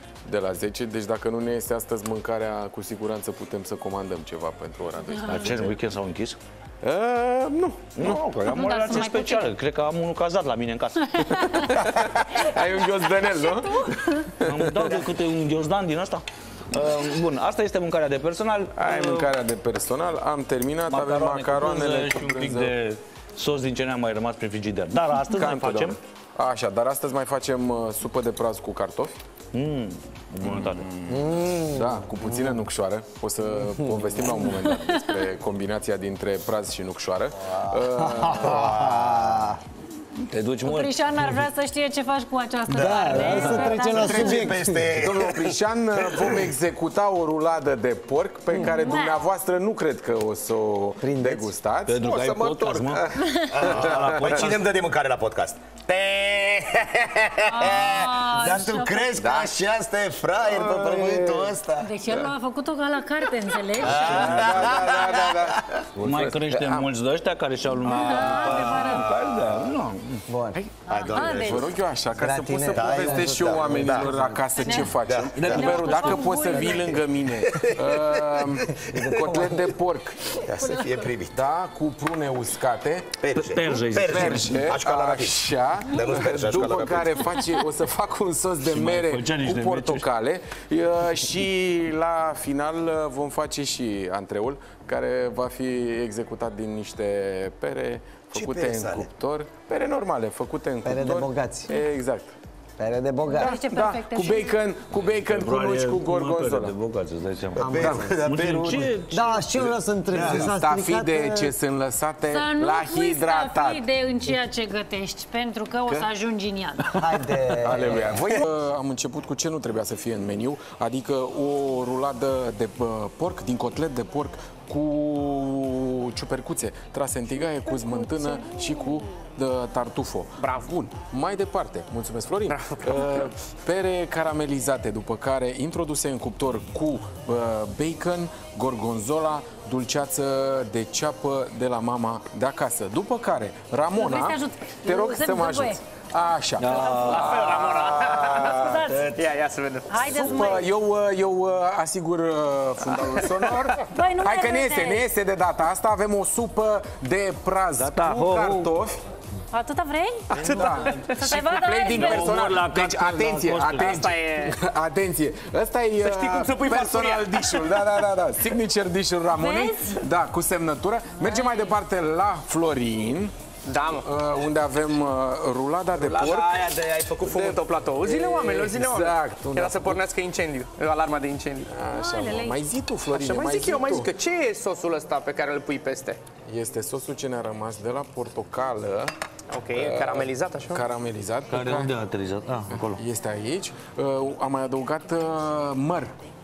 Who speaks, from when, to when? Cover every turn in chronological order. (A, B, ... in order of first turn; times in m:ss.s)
0:00.2-0:05.8 A
0:05.2-0:06.4 B
0:06.8-0:08.2 A
0:08.0-0:11.3 B
0:08.4-0:09.5 C
0:11.2-0:15.0 A
0:11.3-0:11.7 C
0:14.4-0:19.3 B
0:18.8-0:22.7 A
0:20.9-0:26.0 B
0:25.3-0:29.1 A
0:29.5-0:31.2 B
0:30.4-0:30.8 A
0:31.1-0:32.3 D
0:31.5-0:39.2 A
0:38.0-0:39.6 D
0:38.9-0:39.5 E
0:40.2-0:41.3 B
0:40.6-0:44.5 C
0:42.7-0:46.4 E
0:42.7-0:45.0 D
0:44.0-0:54.4 A
0:48.5-0:48.9 D
0:48.5-0:49.3 C
0:51.0-0:51.5 D
0:51.8-0:54.7 B
0:53.2-0:53.6 C
0:53.5-1:02.3 E
0:57.4-0:59.5 C
0:59.2-0:59.5 A
1:00.4-1:01.5 A
1:00.8-1:01.6 D
1:01.8-1:04.0 C
1:03.7-1:05.8 E
1:03.8-1:04.7 B
1:04.0-1:06.9 A
1:06.0-1:10.2 B
1:07.8-1:09.1 C
1:08.6-1:09.7 E
1:10.3-1:10.7 D
1:10.8-1:11.7 E
1:10.9-1:11.7 C
1:11.3-1:20.4 A
1:12.1-1:14.7 D
1:12.7-1:14.2 E
1:14.6-1:17.0 C
1:14.8-1:16.3 E
1:15.3-1:15.8 B
1:17.4-1:18.2 E
1:18.7-1:19.8 D
1:20.4-1:21.4 E
1:20.4-1:21.1 C
1:21.3-1:23.2 A
1:23.2-1:27.3 E
1:23.3-1:24.6 B
1:24.0-1:42.3 A
1:28.6-1:30.1 B
1:38.3-1:39.1 E
1:40.8-1:41.7 D
1:42.8-1:43.6 D
1:43.3-1:46.8 A
1:43.3-1:44.6 C
1:44.9-1:49.8 B
1:47.5-1:49.0 E
1:47.6-1:48.2 D
1:49.1-1:51.5 D
1:50.1-1:50.6 E
1:50.2-1:53.8 A
1:52.3-1:57.0 C
1:56.9-1:58.3 D
1:57.5-2:28.9 A
2:10.4-2:10.7 F
2:12.5-2:13.3 F
2:23.9-2:25.8 C
2:26.6-2:28.1 B
2:26.7-2:27.2 C
2:26.8-2:28.4 F
2:28.4-2:29.2 C
2:29.0-2:30.1 F
2:29.9-2:30.7 C
2:30.0-2:39.0 A
2:32.9-2:33.7 F
2:33.9-2:35.0 C
2:37.7-2:38.7 B
2:39.5-2:40.3 C
2:40.3-2:41.4 F
2:40.3-2:41.1 B
2:40.4-2:53.3 A
2:41.2-2:42.4 C
2:41.9-2:44.0 B
2:43.7-2:44.6 F
2:46.0-2:48.0 F
2:49.4-2:50.0 C
2:51.2-2:51.7 C
2:53.6-2:54.0 F
2:53.9-2:56.6 A
2:56.0-3:01.7 F
2:56.1-2:57.2 B
2:57.2-3:00.0 A
3:01.6-3:04.1 A
3:01.9-3:02.6 C
3:03.1-3:06.2 F
3:06.4-3:09.1 A
3:09.5-3:10.8 F
3:09.7-3:11.9 A
3:11.5-3:13.0 B
3:12.7-3:16.1 A